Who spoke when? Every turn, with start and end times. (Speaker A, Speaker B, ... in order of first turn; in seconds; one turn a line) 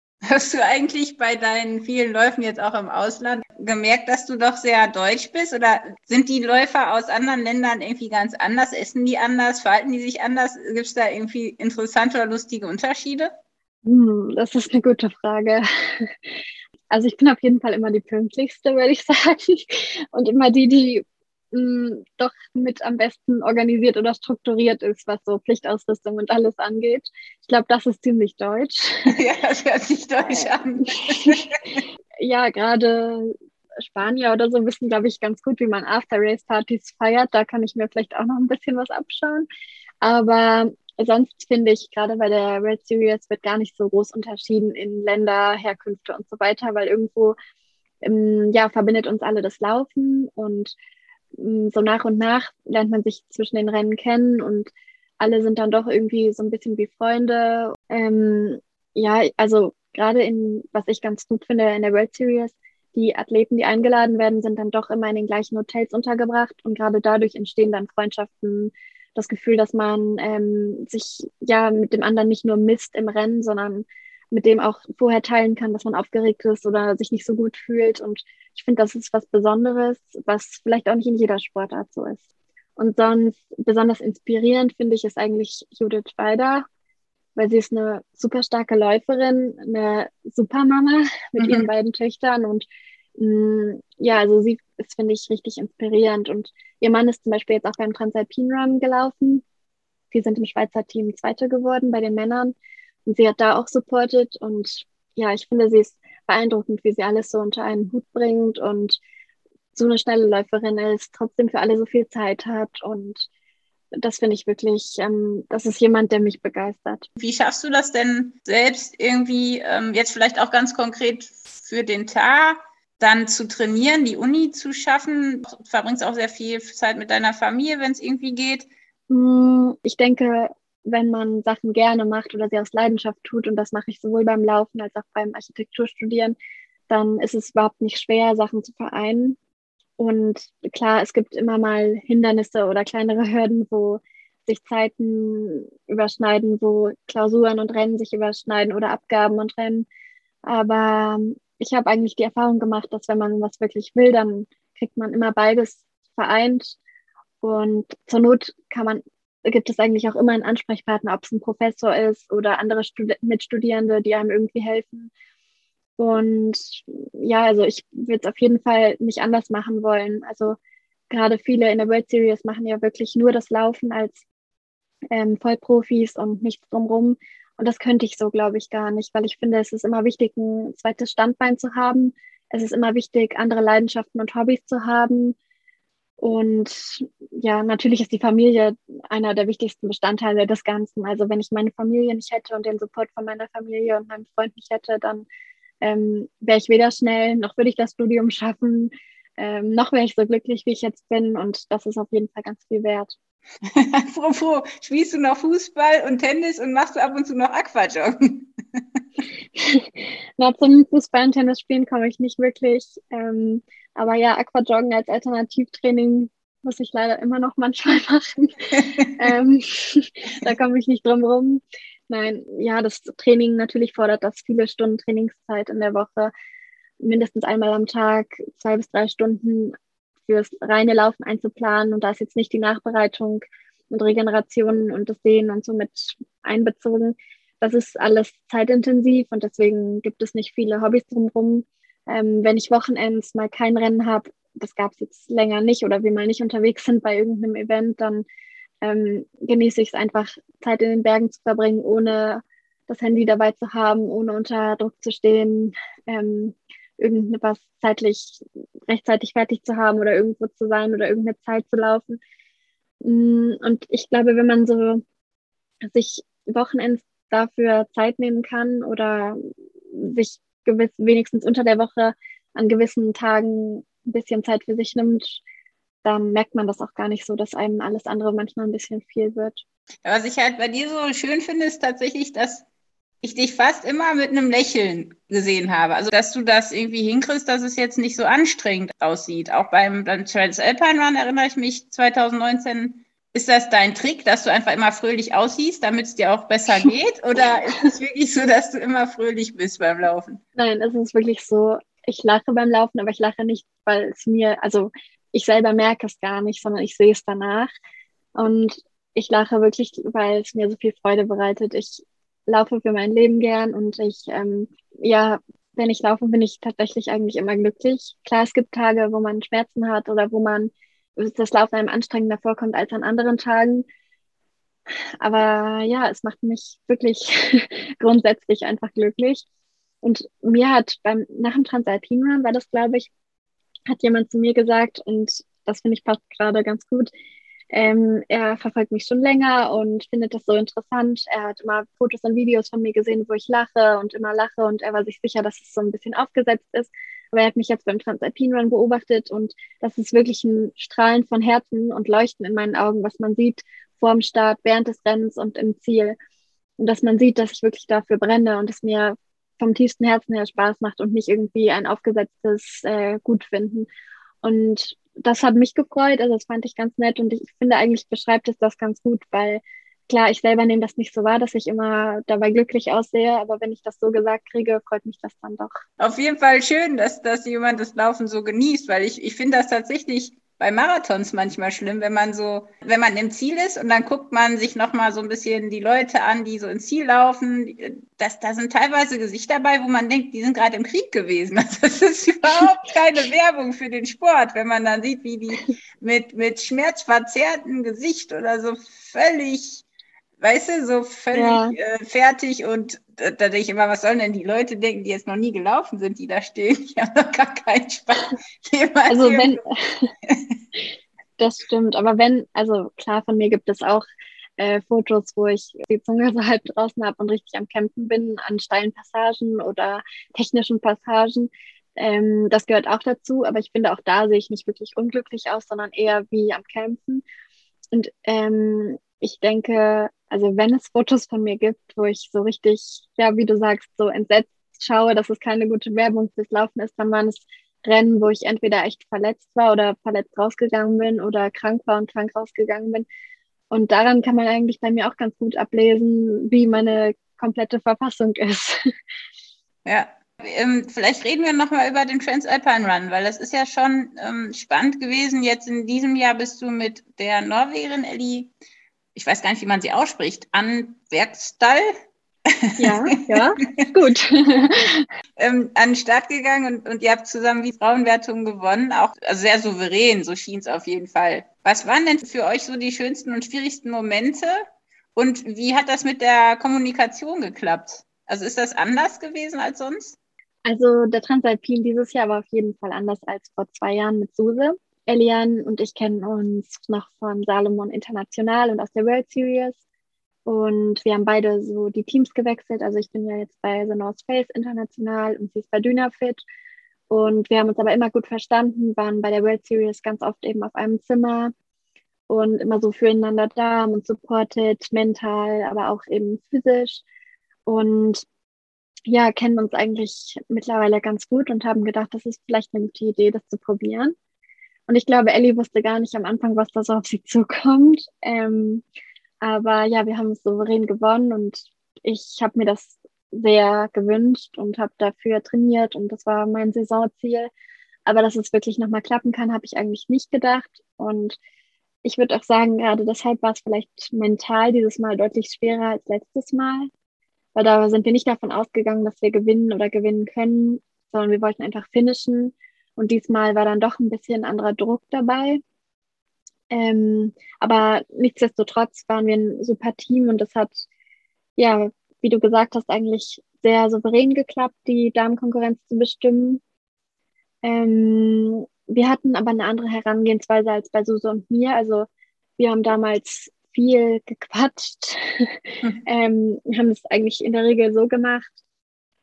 Speaker A: 0.2-13.3
Speaker B: 13.8-16.1
Speaker B: 16.9-29.1
Speaker A: 29.1-31.8
Speaker B: 30.3-31.4
Speaker B: 32.2-39.5
Speaker B: 40.0-47.4
Speaker B: 48.0-50.7
Speaker B: 51.4-82.2
Speaker B: 82.8-86.7
Speaker B: 87.3-99.4
Speaker A: 91.4-91.7
Speaker B: 100.1-102.5
Speaker B: 103.0-109.0
Speaker B: 109.7-113.3
Speaker B: 114.0-117.1
Speaker A: 117.2-128.7
Speaker B: 129.1-136.3
Speaker B: 136.9-139.4
Speaker B: 140.0-149.8
Speaker B: 150.4-156.8
Speaker B: 157.4-165.1
Speaker B: 166.0-170.6
Speaker B: 171.1-174.2
Speaker B: 175.1-185.3
Speaker B: 186.2-195.2
Speaker B: 195.8-203.1
Speaker A: 203.7-208.8
Speaker B: 209.6-226.3
Speaker B: 227.0-248.2
Speaker B: 248.8-262.2
Speaker B: 263.0-265.0
Speaker B: 265.8-269.4
Speaker B: 269.9-275.4
Speaker B: 276.0-279.6
Speaker A: 280.0-282.6
Speaker A: 283.2-300.4
Speaker B: 300.6-307.7
Speaker B: 308.3-323.8
Speaker B: 325.2-329.4
Speaker B: 330.0-333.1
Speaker B: 333.9-337.1
Speaker B: 337.7-356.1
Speaker B: 356.8-363.9
Speaker B: 364.4-375.8
Speaker A: 376.0-399.8
Speaker A: 400.4-409.6
Speaker B: 401.3-401.8
Speaker B: 409.1-410.1
Speaker A: 410.2-410.6
Speaker B: 411.4-414.1
Speaker B: 414.6-427.2
Speaker B: 427.9-443.0
Speaker B: 443.7-448.8
Speaker A: 449.8-458.5
Speaker A: 459.1-461.9
Speaker A: 462.5-463.8
Speaker B: 462.8-465.0
Speaker A: 465.4-474.6
Speaker A: 475.1-480.1
Speaker B: 480.6-489.8
Speaker B: 490.4-496.4
Speaker B: 497.1-501.5
Speaker B: 502.3-507.0
Speaker B: 507.6-508.2
Speaker B: 509.1-514.1
Speaker B: 514.9-518.8
Speaker B: 519.4-527.5
Speaker B: 528.0-531.4
Speaker B: 532.0-536.9
Speaker B: 537.5-545.6
Speaker B: 546.7-550.8
Speaker B: 551.6-556.6
Speaker B: 557.6-562.1
Speaker B: 562.6-568.5